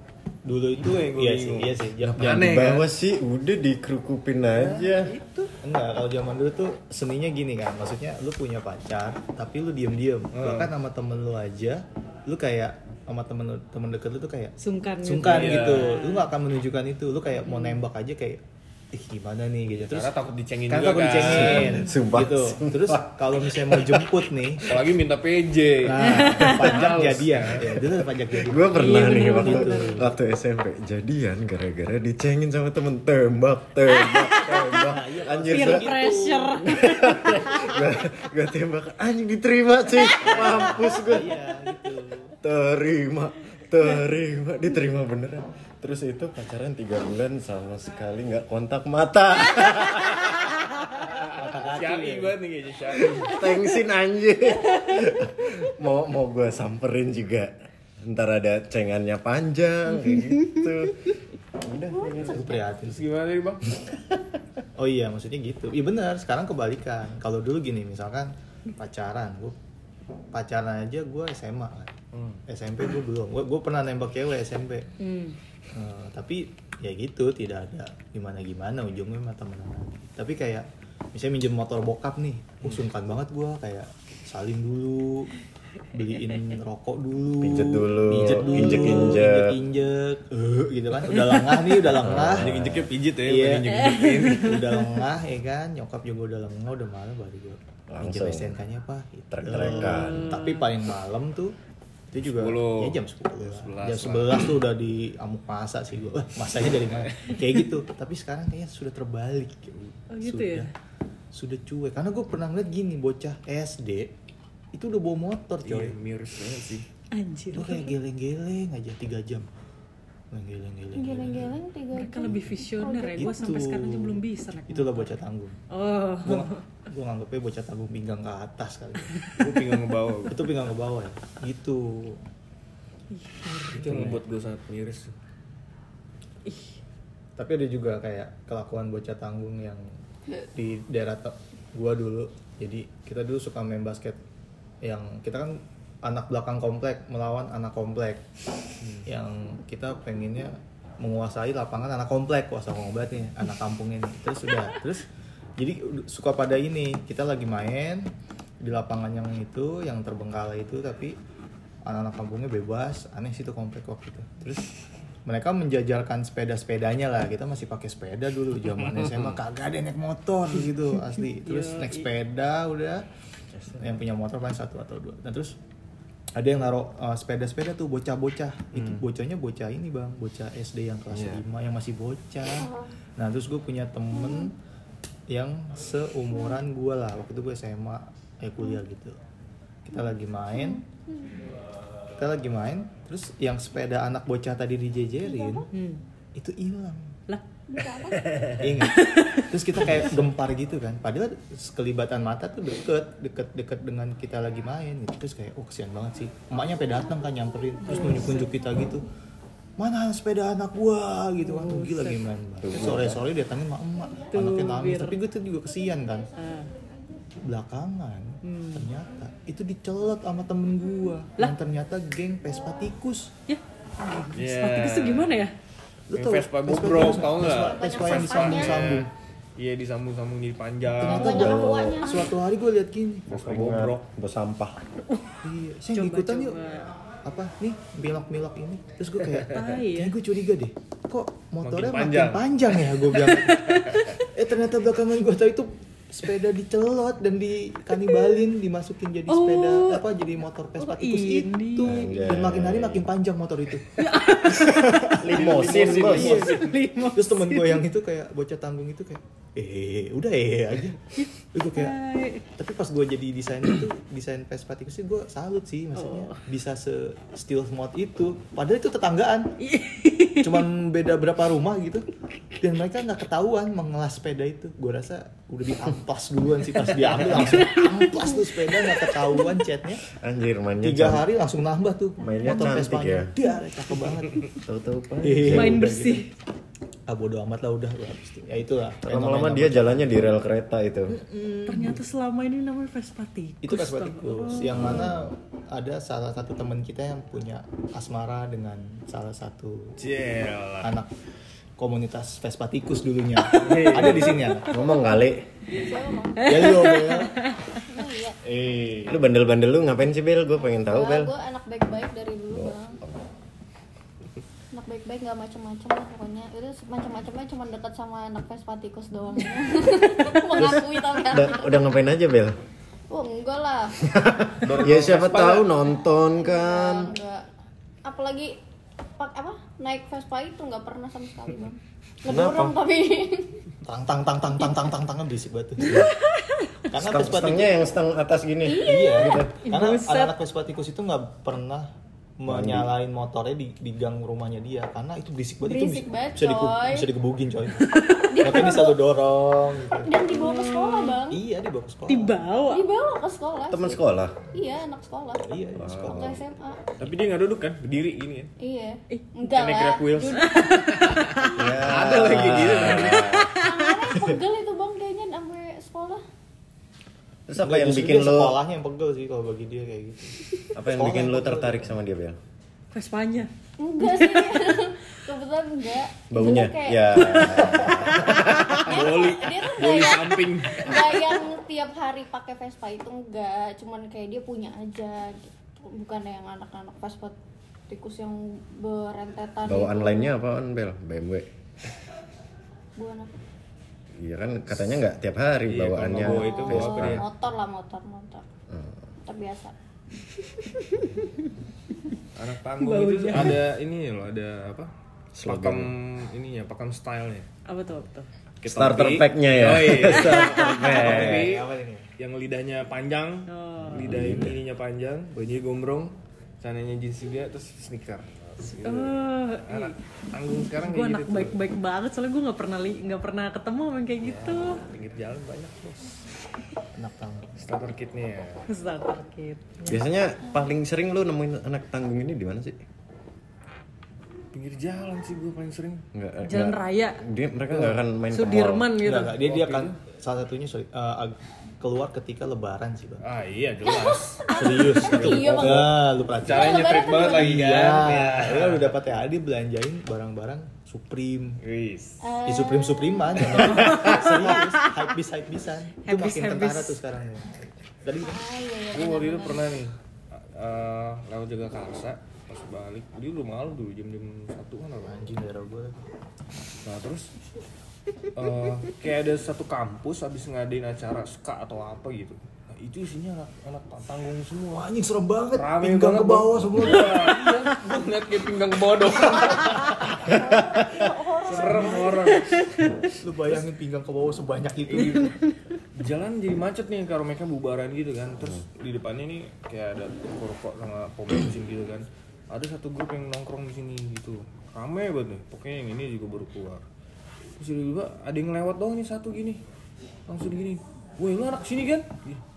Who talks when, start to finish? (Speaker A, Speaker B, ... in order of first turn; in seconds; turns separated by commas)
Speaker A: 0.5-2.5, Speaker B: 0.7-2.9, Speaker C: 2.0-5.2, Speaker B: 4.5-5.5, Speaker A: 5.6-18.4, Speaker B: 10.3-10.7, Speaker D: 14.6-16.3, Speaker B: 15.2-16.0, Speaker D: 17.5-17.8, Speaker A: 18.9-20.1, Speaker B: 19.7-21.7, Speaker A: 20.7-24.8, Speaker C: 21.3-24.2, Speaker D: 21.6-21.9, Speaker B: 24.6-27.8, Speaker A: 25.8-30.1, Speaker D: 26.1-26.8, Speaker C: 28.3-36.0, Speaker D: 28.7-30.1, Speaker D: 33.9-34.9, Speaker A: 34.6-36.6, Speaker D: 35.4-37.8, Speaker C: 36.6-41.4, Speaker D: 40.0-41.0, Speaker A: 40.2-42.4, Speaker C: 42.4-50.6, Speaker A: 51.0-52.3, Speaker B: 51.4-53.5, Speaker C: 53.3-62.5, Speaker A: 62.1-63.0, Speaker B: 62.2-63.6, Speaker A: 64.8-69.6, Speaker A: 70.3-71.9, Speaker B: 72.1-72.4, Speaker A: 72.5-74.9, Speaker D: 75.0-75.4, Speaker A: 75.7-85.3, Speaker A: 85.9-101.6, Speaker C: 87.4-89.6, Speaker D: 88.7-89.1, Speaker C: 91.8-92.9, Speaker B: 92.4-94.7, Speaker D: 93.8-94.7, Speaker C: 97.9-98.6, Speaker C: 99.3-100.4, Speaker D: 99.8-100.7, Speaker A: 102.1-110.7, Speaker B: 102.2-104.5, Speaker D: 110.1-110.7, Speaker A: 111.3-114.1, Speaker A: 114.7-116.0, Speaker B: 115.6-116.9, Speaker D: 117.1-118.0, Speaker A: 117.5-119.5, Speaker A: 120.3-121.6, Speaker E: 121.0-123.4, Speaker D: 121.9-125.1, Speaker A: 123.2-125.6, Speaker D: 125.7-126.6, Speaker A: 126.2-129.4, Speaker B: 129.4-130.5, Speaker A: 130.3-132.2, Speaker D: 133.1-134.2, Speaker B: 133.7-135.1, Speaker A: 133.8-134.2, Speaker D: 136.5-136.7, Speaker A: 137.4-139.9, Speaker A: 140.5-144.2, Speaker A: 144.8-148.2, Speaker A: 149.1-155.1, Speaker A: 155.6-161.2, Speaker A: 161.8-164.4, Speaker A: 165.3-173.1, Speaker B: 168.8-169.4, Speaker D: 171.4-172.1, Speaker A: 173.8-175.6, Speaker A: 176.4-184.6, Speaker B: 178.7-179.1, Speaker B: 181.1-181.4, Speaker E: 182.6-182.9, Speaker E: 184.1-184.5, Speaker A: 185.3-189.2, Speaker A: 189.9-190.8, Speaker E: 190.5-191.4, Speaker A: 192.2-195.7, Speaker E: 195.2-195.7, Speaker D: 195.7-196.0, Speaker A: 196.3-197.1, Speaker E: 197.7-198.4, Speaker B: 198.2-198.6, Speaker A: 198.6-209.1, Speaker D: 198.8-199.5, Speaker D: 208.0-208.4, Speaker A: 209.8-216.3, Speaker D: 211.4-212.2, Speaker C: 212.6-213.2, Speaker D: 214.3-215.2, Speaker D: 216.4-216.7, Speaker A: 217.4-223.3, Speaker D: 218.4-218.9, Speaker D: 223.5-225.5, Speaker B: 224.3-225.4, Speaker A: 226.1-229.1, Speaker B: 226.1-231.5, Speaker E: 227.0-229.0, Speaker A: 231.0-233.3, Speaker E: 231.0-232.3, Speaker C: 231.2-232.0, Speaker B: 233.3-234.0, Speaker C: 233.3-234.8, Speaker D: 235.1-235.4, Speaker A: 235.4-236.6, Speaker D: 235.9-236.9, Speaker A: 237.2-269.5, Speaker D: 239.5-240.2, Speaker B: 241.6-242.5, Speaker B: 243.6-244.0, Speaker D: 249.3-250.1, Speaker D: 250.8-252.2, Speaker C: 251.8-253.1, Speaker D: 254.0-257.9, Speaker C: 255.0-256.5, Speaker B: 255.2-256.5, Speaker D: 261.2-262.5, Speaker D: 266.0-266.4, Speaker D: 269.6-270.7, Speaker A: 270.4-272.1, Speaker A: 272.6-280.0, Speaker D: 277.4-279.5, Speaker C: 280.1-281.3, Speaker A: 280.8-284.5, Speaker C: 282.2-283.3, Speaker C: 284.6-285.9, Speaker A: 285.2-286.3, Speaker D: 285.5-286.3, Speaker A: 287.1-290.2, Speaker C: 289.0-291.2, Speaker A: 291.3-292.0, Speaker D: 291.6-295.0, Speaker A: 293.6-299.9, Speaker C: 294.7-295.3, Speaker B: 300.0-300.9, Speaker A: 300.8-301.1, Speaker A: 301.8-304.8, Speaker B: 303.5-304.4, Speaker D: 304.5-304.8, Speaker C: 304.7-305.4, Speaker E: 305.7-306.8, Speaker D: 306.4-307.8, Speaker A: 306.5-307.4, Speaker E: 307.8-308.4, Speaker C: 308.5-311.3, Speaker E: 310.9-313.0, Speaker C: 312.5-313.2, Speaker E: 314.7-321.9, Speaker C: 320.5-322.6, Speaker E: 323.1-324.1, Speaker C: 324.0-327.1, Speaker B: 324.6-325.7, Speaker E: 326.4-327.5, Speaker E: 328.0-328.6, Speaker E: 329.2-333.6, Speaker C: 332.3-332.8, Speaker A: 333.8-336.1, Speaker C: 335.9-336.1, Speaker D: 335.9-336.8, Speaker A: 336.9-337.9, Speaker C: 336.9-339.5, Speaker E: 338.6-339.4, Speaker A: 338.8-350.1, Speaker D: 339.6-340.4, Speaker C: 342.5-342.9, Speaker E: 345.6-347.1, Speaker D: 347.8-348.7, Speaker E: 348.3-349.0, Speaker E: 350.0-351.4, Speaker D: 350.3-351.2, Speaker A: 351.3-352.4, Speaker D: 352.1-352.9, Speaker E: 352.7-354.0, Speaker C: 353.7-354.4, Speaker E: 354.5-357.0, Speaker A: 355.4-356.4, Speaker C: 355.8-356.4, Speaker B: 357.0-358.5, Speaker E: 358.6-360.4, Speaker B: 359.5-363.4, Speaker D: 360.3-361.5, Speaker C: 361.6-363.6, Speaker D: 363.1-364.0, Speaker E: 363.6-366.2, Speaker C: 367.5-368.6, Speaker A: 367.6-372.0, Speaker C: 370.7-372.4, Speaker D: 372.9-374.7, Speaker E: 373.8-378.0, Speaker C: 376.3-378.9, Speaker D: 377.2-378.5, Speaker B: 378.8-381.3, Speaker E: 378.9-387.4, Speaker E: 387.9-390.4, Speaker C: 389.6-391.5, Speaker E: 393.0-393.4, Speaker C: 394.2-397.3, Speaker B: 395.7-397.3, Speaker E: 396.2-398.5, Speaker C: 398.7-399.0, Speaker E: 399.3-399.7, Speaker D: 400.6-401.3, Speaker B: 402.3-404.9, Speaker D: 402.8-403.6, Speaker C: 405.4-405.9, Speaker B: 405.4-407.5, Speaker D: 407.7-408.3, Speaker B: 408.6-421.6, Speaker C: 408.6-411.5, Speaker D: 410.2-410.7, Speaker A: 410.9-412.1, Speaker D: 413.5-414.1, Speaker C: 413.8-414.6, Speaker D: 418.6-419.9, Speaker D: 420.8-424.8, Speaker B: 424.2-426.2, Speaker A: 426.9-427.6, Speaker B: 427.6-428.6, Speaker D: 428.7-430.0, Speaker C: 429.9-432.8, Speaker B: 434.5-436.0, Speaker C: 436.1-438.9, Speaker D: 436.5-437.2, Speaker D: 438.3-439.4, Speaker A: 439.0-443.2, Speaker B: 439.3-439.9, Speaker B: 443.2-449.0, Speaker E: 443.9-445.9, Speaker A: 444.5-451.6, Speaker E: 446.5-447.6, Speaker B: 451.6-452.2, Speaker E: 452.2-453.6, Speaker A: 452.5-458.4, Speaker D: 454.4-454.8, Speaker D: 456.0-457.0, Speaker E: 458.2-459.7, Speaker B: 458.9-465.3, Speaker A: 465.1-466.0, Speaker B: 466.8-467.3, Speaker B: 468.4-474.9, Speaker A: 474.7-477.5, Speaker B: 475.6-480.2, Speaker E: 480.1-482.3, Speaker B: 481.4-482.6, Speaker A: 481.5-482.1, Speaker D: 482.3-483.0, Speaker A: 483.2-485.3, Speaker B: 484.9-485.3, Speaker D: 485.0-485.6, Speaker B: 485.9-496.9, Speaker B: 497.6-499.6, Speaker B: 500.3-502.4